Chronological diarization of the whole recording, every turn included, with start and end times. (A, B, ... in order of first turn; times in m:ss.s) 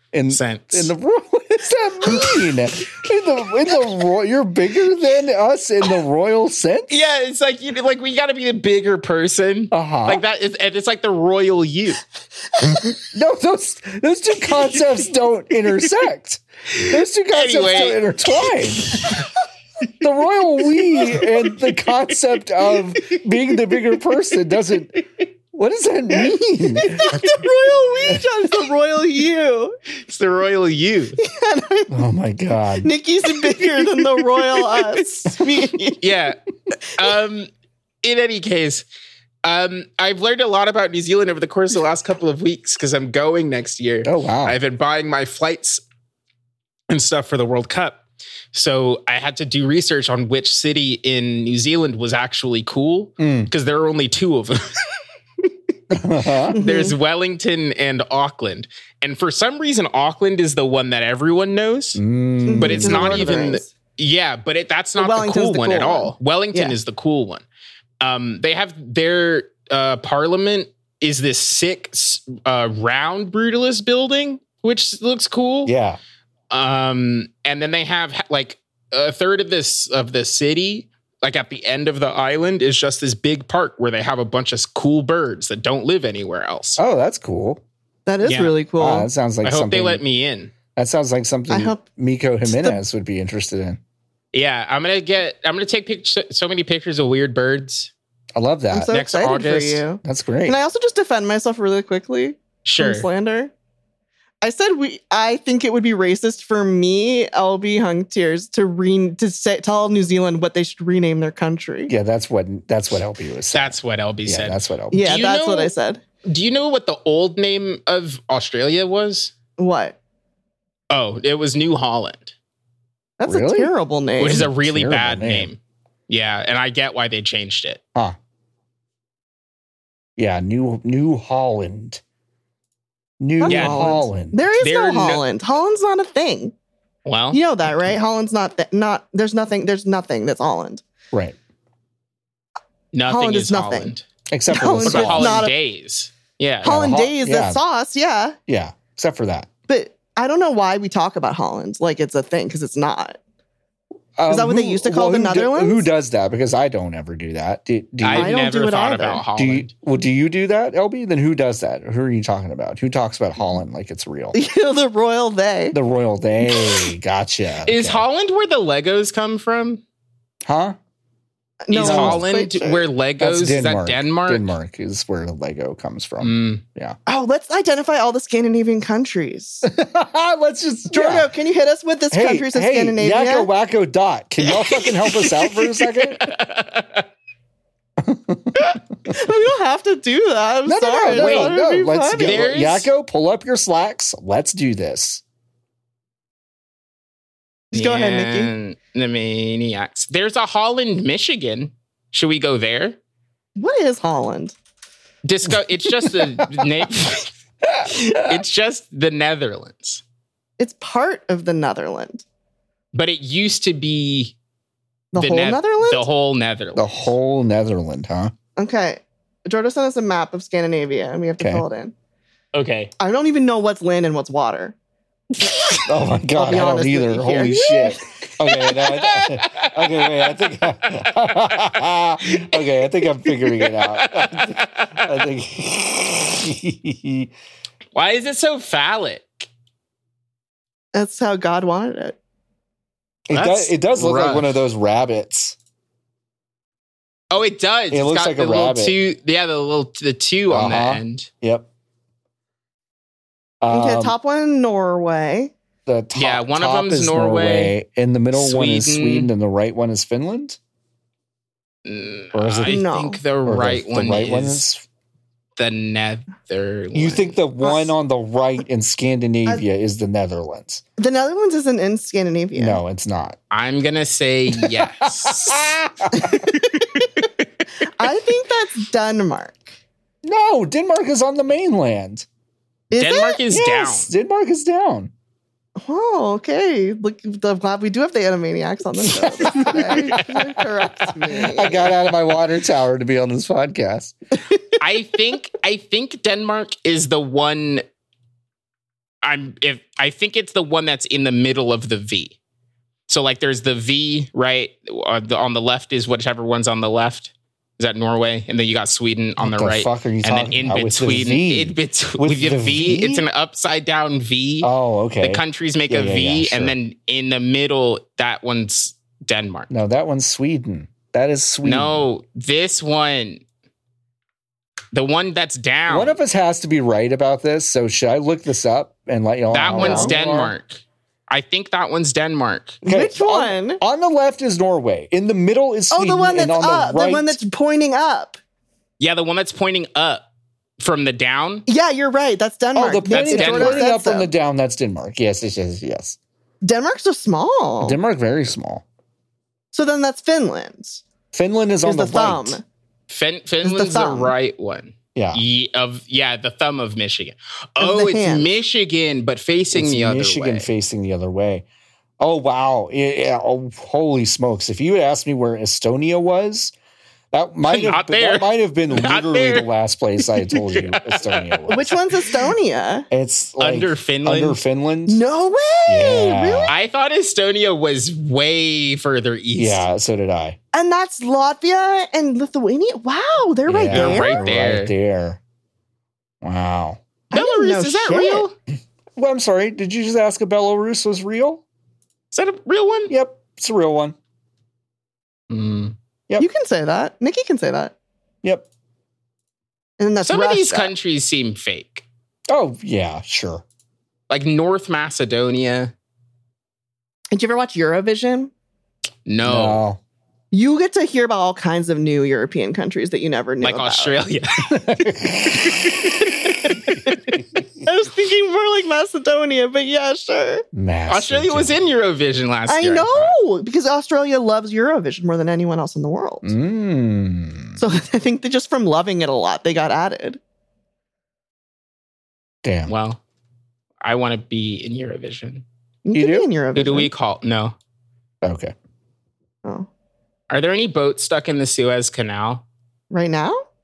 0:00.1-0:06.9 A
0:00.3-0:00.9 B
0:06.9-0:12.0 B
0:09.7-0:10.2 A
0:13.0-0:19.2 A
0:17.3-0:19.1 B
0:20.0-0:27.2 A
0:26.7-0:29.8 C
0:30.1-0:31.2 B
0:31.2-0:32.0 C
0:31.9-0:32.9 A
0:32.8-0:36.1 C
0:33.6-0:34.9 B
0:36.0-0:36.4 B
0:37.0-0:37.5 B
0:38.0-0:38.8 B
0:39.4-0:45.8 B
0:44.0-0:44.6 A
0:46.9-0:48.0 B
0:48.5-0:54.7 B
0:53.2-0:53.5 A
0:55.9-0:56.6 A
0:56.4-1:02.0 B
0:56.5-0:57.0 C
1:02.0-1:03.4 A
1:02.5-1:03.7 C
1:02.6-1:07.4 B
1:05.0-1:06.8 C
1:08.0-1:15.7 B
1:15.7-1:16.0 A
1:16.5-1:26.8 B
1:26.8-1:27.6 A
1:28.1-1:29.1 C
1:28.2-1:28.6 B
1:28.8-1:30.0 A
1:29.4-1:30.5 B
1:30.7-1:33.8 A
1:31.5-1:31.8 C
1:32.4-1:32.8 C
1:34.3-1:37.9 B
1:38.4-1:38.9 A
1:38.7-1:43.5 C
1:38.9-1:39.8 B
1:40.0-1:40.6 A
1:42.6-1:43.1 B
1:44.4-1:51.9 C
1:51.9-1:55.2 A
1:53.5-1:55.7 B
1:54.9-1:56.0 C
1:56.2-1:59.3 B
1:59.6-2:00.0 C
2:00.9-2:02.3 B
2:03.2-2:04.5 C
2:03.3-2:03.7 A
2:04.2-2:07.8 B
2:04.2-2:05.5 A
2:10.2-2:12.0 A
2:13.2-2:14.4 A
2:13.4-2:16.5 C
2:13.5-2:13.9 B
2:14.6-2:15.2 B
2:17.0-2:17.4 B
2:17.3-2:20.8 C
2:22.9-2:24.0 B
2:23.0-2:23.9 C
2:24.3-2:25.4 A
2:24.5-2:25.5 C
2:24.8-2:26.8 B
2:26.6-2:28.4 C
2:26.6-2:27.6 A
2:28.5-2:29.5 A
2:29.7-2:33.2 C
2:34.2-2:38.4 A
2:34.3-2:35.9 C
2:38.0-2:39.7 B
2:38.2-2:39.2 C
2:39.4-2:44.4 A
2:44.3-2:45.8 C
2:45.7-2:48.0 A
2:46.5-2:46.9 C
2:47.7-2:49.8 B
2:50.4-2:50.8 A
2:51.6-2:52.9 C
2:51.7-2:54.5 B
2:51.7-2:52.2 A
2:53.2-2:57.0 A
2:56.2-2:56.6 B
2:57.1-2:59.7 C
2:59.6-3:01.3 A
3:00.9-3:03.5 C
3:02.1-3:06.3 A
3:04.4-3:07.1 B
3:08.0-3:08.6 A
3:09.1-3:12.5 C
3:10.7-3:15.2 A
3:11.1-3:11.6 B
3:12.2-3:12.9 B
3:17.7-3:18.5 C
3:17.7-3:23.0 B
3:23.6-3:24.6 C
3:25.2-3:27.3 B
3:26.0-3:26.7 A
3:27.6-3:28.4 A
3:27.9-3:30.0 B
3:30.6-3:32.2 C
3:32.9-3:34.4 B
3:35.1-3:36.1 C
3:35.2-3:37.1 B
3:36.8-3:38.3 A
3:38.6-3:41.9 C
3:42.5-3:42.9 B
3:43.0-3:44.8 C
3:45.9-3:57.3 A
3:46.4-3:48.0 C
3:47.3-3:47.9 B
3:48.4-3:50.5 B
3:52.3-3:52.6 B
3:53.3-3:55.2 B
3:58.0-3:59.5 B
4:00.9-4:02.2 C
4:03.3-4:05.6 A
4:03.3-4:04.6 B
4:07.3-4:11.3 B
4:07.9-4:09.0 A
4:10.5-4:11.7 A
4:13.6-4:14.2 A
4:13.7-4:15.5 C
4:15.9-4:20.6 A
4:16.2-4:17.8 B
4:18.3-4:19.3 B
4:21.8-4:24.6 B
4:22.3-4:22.8 A
4:22.7-4:23.2 C
4:23.4-4:24.8 A
4:25.6-4:27.4 B
4:26.9-4:30.8 A
4:27.6-4:27.9 C
4:31.0-4:32.8 C
4:32.6-4:33.4 A
4:33.5-4:35.8 B
4:34.5-4:36.3 A
4:36.1-4:37.1 C
4:38.0-4:39.7 C
4:40.2-4:42.3 A
4:42.9-4:43.4 C
4:43.0-4:44.1 B
4:43.5-4:45.1 A
4:45.8-4:51.9 C
4:49.3-4:54.1 A
4:49.5-4:50.4 B
4:54.8-4:57.8 B
4:59.2-5:02.4 B
5:03.1-5:14.7 B
5:09.4-5:13.2 A
5:14.6-5:16.7 A
5:15.2-5:19.7 B
5:19.7-5:22.0 A
5:21.6-5:23.4 B
5:24.9-5:26.2 B
5:25.9-5:30.5 A
5:29.5-5:32.8 B
5:29.7-5:30.3 C
5:32.8-5:37.4 A
5:32.8-5:33.8 C
5:35.9-5:38.4 C
5:39.0-5:40.3 B
5:40.8-5:41.7 B
5:41.7-5:44.3 C
5:42.8-5:46.2 A
5:43.1-5:43.8 B
5:46.6-5:48.0 C
5:47.8-5:48.8 A
5:49.7-5:51.0 C
5:51.3-5:52.6 A
5:51.8-5:52.6 C
5:53.1-6:00.7 B
5:53.6-5:54.3 C
5:55.2-5:55.4 A
5:57.8-5:58.5 C
5:59.7-6:01.6 A
6:02.2-6:06.7 A
6:07.3-6:11.9 A
6:07.7-6:09.7 B
6:10.2-6:12.2 B
6:11.7-6:13.1 C
6:13.1-6:15.2 A
6:13.6-6:14.6 B
6:15.1-6:16.7 C
6:15.9-6:16.7 A
6:16.7-6:19.8 B
6:19.5-6:20.6 A
6:20.7-6:24.4 C
6:23.7-6:25.4 A
6:23.9-6:24.9 B
6:26.4-6:27.0 A
6:27.3-6:28.5 C
6:27.3-6:28.5 B
6:29.2-6:31.6 A
6:32.3-6:33.1 B
6:33.1-6:34.2 A
6:35.5-6:36.0 B
6:36.4-6:38.0 C
6:40.0-6:40.9 C
6:40.2-6:42.0 B
6:42.5-6:43.6 A
6:44.3-6:45.9 B
6:47.3-6:48.5 C
6:49.3-6:49.8 B
6:49.4-6:50.0 A
6:50.5-6:54.2 C
6:53.6-6:57.3 B
6:54.7-6:57.6 A
6:57.8-7:00.6 C
7:00.7-7:01.8 A
7:01.1-7:03.4 B
7:02.7-7:06.5 C
7:06.4-7:07.8 A
7:07.8-7:10.4 C
7:12.6-7:12.9 A
7:12.9-7:13.2 B
7:14.0-7:15.6 B
7:16.0-7:17.1 C
7:16.1-7:16.5 A
7:16.7-7:17.8 B
7:18.4-7:18.7 A
7:20.5-7:22.6 B
7:23.1-7:23.6 C